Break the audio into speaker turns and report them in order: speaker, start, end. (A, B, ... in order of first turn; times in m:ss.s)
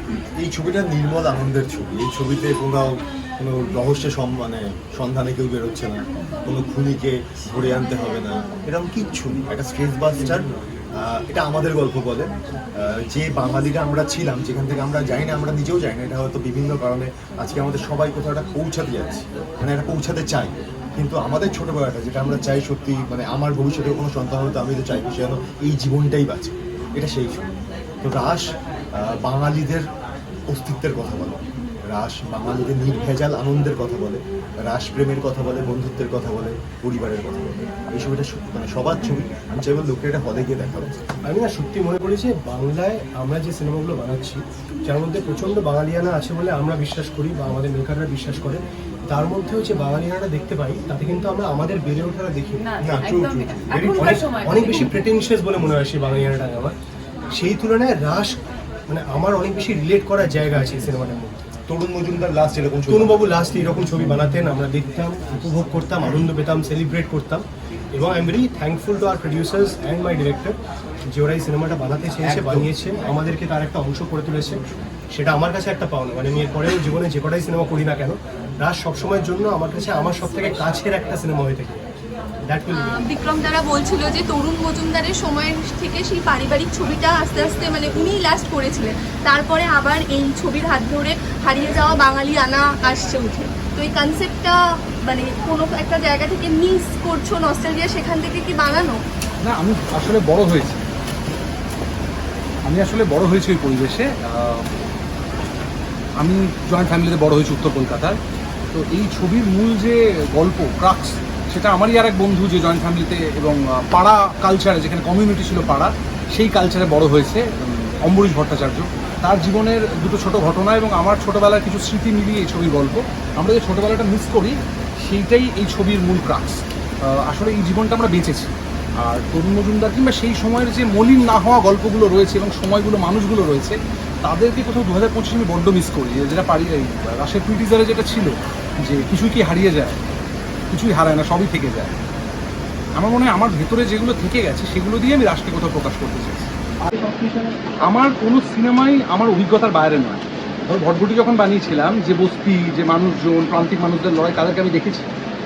0:00.4-0:29.9 A
0:30.5-0:40.9 A
0:41.2-0:52.6 B
0:52.6-0:55.0 C
0:52.8-0:54.0 A
0:53.7-0:56.7 B
0:57.4-1:01.4 B
1:01.7-1:03.4 A
1:02.9-1:10.6 B
1:11.1-1:14.6 B
1:12.4-1:12.6 A
1:15.1-1:21.9 B
1:22.5-1:23.0 B
1:22.7-1:34.5 D
1:35.0-1:39.0 D
1:39.4-1:40.8 E
1:42.6-1:44.6 E
1:46.2-1:48.2 E
1:48.7-2:20.0 E
2:20.7-2:21.9 E
2:23.0-2:26.4 E
2:27.0-2:35.0 E